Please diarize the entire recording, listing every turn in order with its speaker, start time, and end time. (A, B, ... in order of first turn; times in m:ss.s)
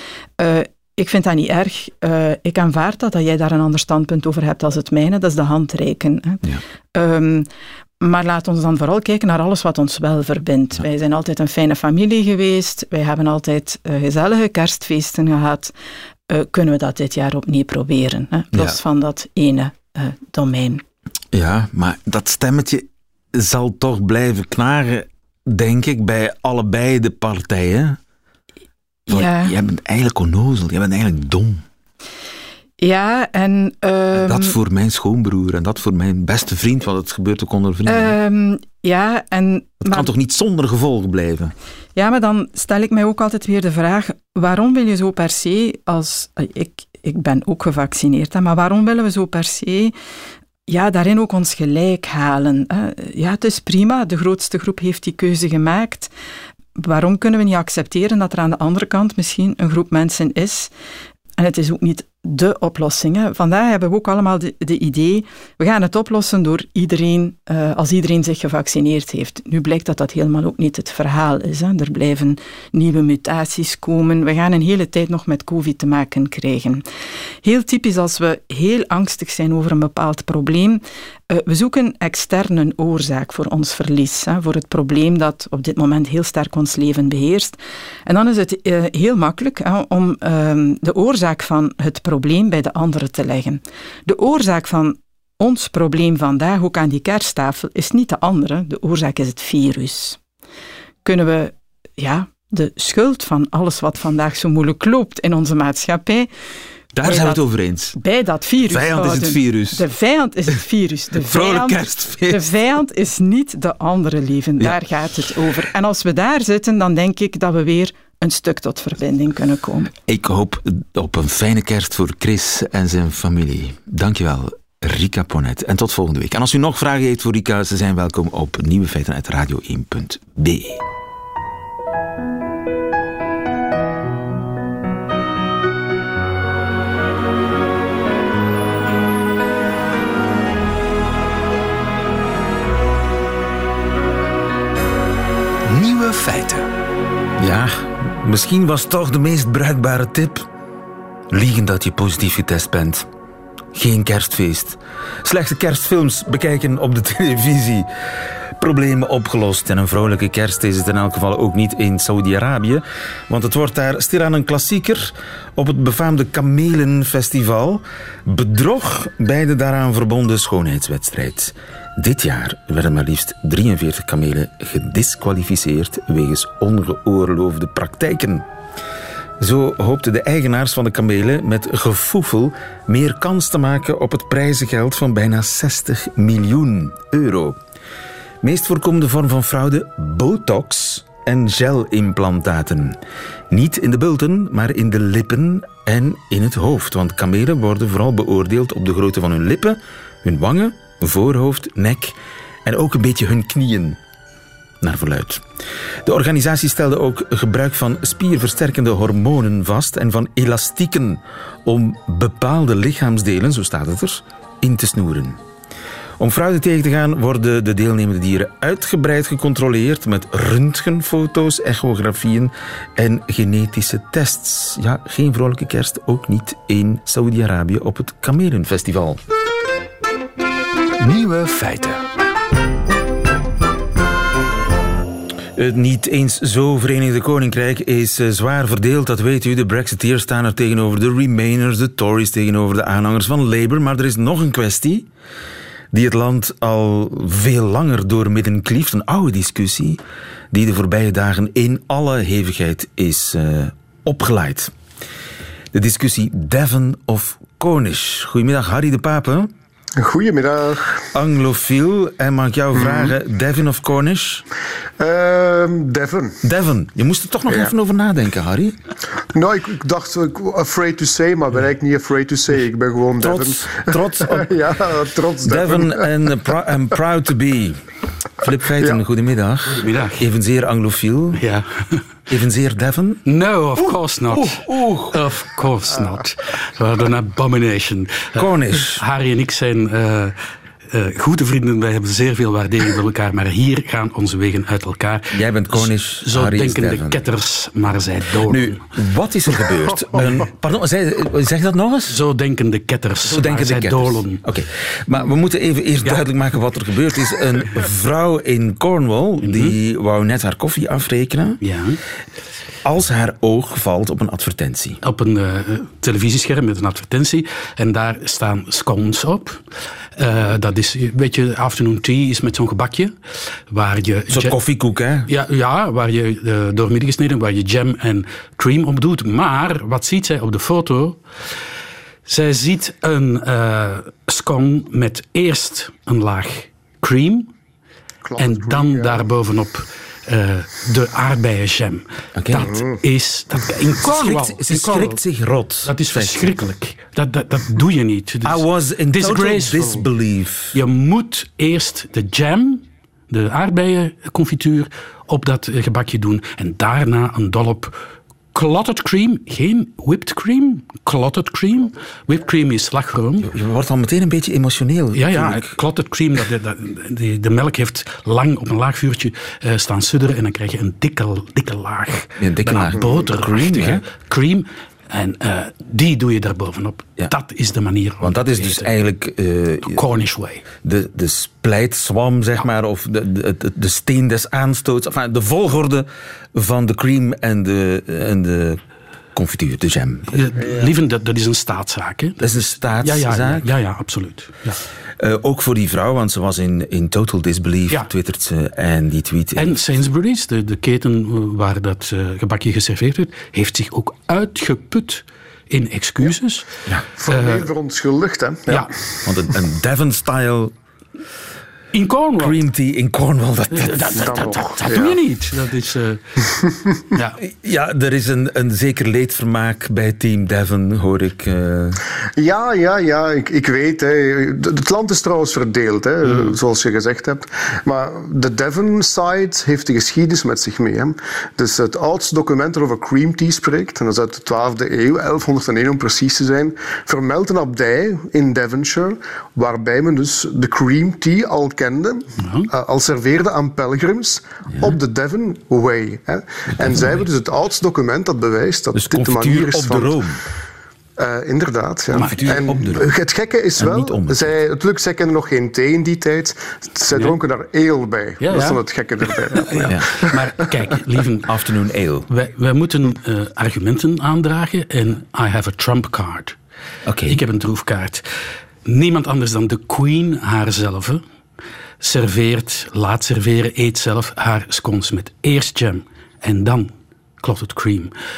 0:00.4-0:06.4 A
0:06.9-0:07.5 A
0:08.0-0:15.7 A
0:16.3-0:20.8 A
0:18.5-0:18.8 B
0:21.3-0:28.0 B
0:29.1-0:29.6 A
0:29.1-0:31.6 B
0:32.8-0:34.6 A
0:34.1-0:38.2 B
0:37.8-0:40.1 A
0:39.8-0:41.5 B
0:42.0-0:49.9 A
0:50.7-0:56.1 A
0:56.7-1:00.7 A
1:01.4-1:16.8 A
1:17.4-1:40.2 A
1:41.0-1:46.3 A
1:46.9-1:48.0 B
1:47.0-1:47.4 A
1:48.0-1:59.9 A
1:48.6-1:49.8 B
1:51.2-1:52.4 B
2:00.0-2:10.8 B
2:25.6-2:26.7 C
2:27.4-2:30.4 B
2:31.3-2:33.1 B
2:33.7-2:37.9 B
2:38.6-2:58.4 B
2:59.4-3:07.6 B
3:08.4-3:13.0 B
3:13.5-3:24.0 B
3:24.8-3:25.4 B
3:26.0-3:35.4 B
3:36.2-3:49.2 B
3:51.0-3:52.0 C
3:55.6-4:05.1 B
4:05.9-4:14.7 B
4:15.7-4:19.5 B
4:20.0-4:21.0 D
4:21.1-4:24.4 B
4:22.8-4:23.1 D
4:25.0-4:26.4 D
4:26.4-4:28.8 B
4:29.3-4:36.1 D
4:33.2-4:34.5 B
4:35.4-4:37.8 B
4:38.4-4:41.4 B
4:39.8-4:40.3 E
4:41.4-4:42.0 E
4:42.3-4:43.2 B
4:43.2-4:50.4 E
4:44.3-4:45.2 B
4:48.3-4:49.0 B
4:50.9-4:58.8 E
4:55.3-4:57.2 B
4:58.4-5:02.2 B
5:00.2-5:00.4 E
5:02.1-5:04.4 E
5:03.2-5:11.6 B
5:09.4-5:09.7 E
5:11.6-5:12.0 E
5:12.8-5:15.0 B
5:15.0-5:19.6 E
5:20.2-5:23.1 E
5:23.7-5:24.5 E
5:24.3-5:25.3 B
5:25.2-5:31.2 E
5:32.2-5:37.5 E
5:38.2-5:39.2 D
5:38.4-5:45.2 E
5:42.4-5:42.7 B
5:42.6-5:43.0 D
5:44.0-5:46.6 B
5:45.8-5:50.0 E
5:48.4-5:50.8 B
5:50.7-5:58.0 E
5:58.5-6:03.5 E
6:03.4-6:05.7 B
6:05.1-6:18.9 E
6:12.4-6:14.0 B
6:18.2-6:20.0 B
6:19.8-6:20.7 E
6:20.8-6:28.8 B
6:29.3-6:30.4 B
6:30.3-6:34.8 E
6:30.6-6:30.9 D
6:32.4-6:33.7 B
6:35.2-6:39.8 B
6:39.6-6:46.7 E
6:47.2-6:49.0 D
6:47.3-6:47.7 E
6:49.2-6:50.7 B
6:51.9-6:52.6 E
6:52.4-6:54.4 B
6:53.7-6:56.2 E
6:54.1-6:55.2 D
6:57.1-6:57.4 E
6:57.4-7:02.0 B
7:02.4-7:30.2 D
7:22.4-7:22.7 E
7:28.9-7:30.4 B
7:31.2-7:40.8 D
7:32.1-7:33.1 B
7:32.1-7:32.6 E
7:33.8-7:34.6 B
7:37.1-7:37.4 E
7:38.4-7:38.8 E
7:39.3-7:41.5 E
7:41.4-7:42.3 B
7:42.3-7:46.6 E
7:47.0-7:47.4 B
7:47.3-7:48.3 E
7:48.8-7:51.2 E
7:52.0-7:58.1 E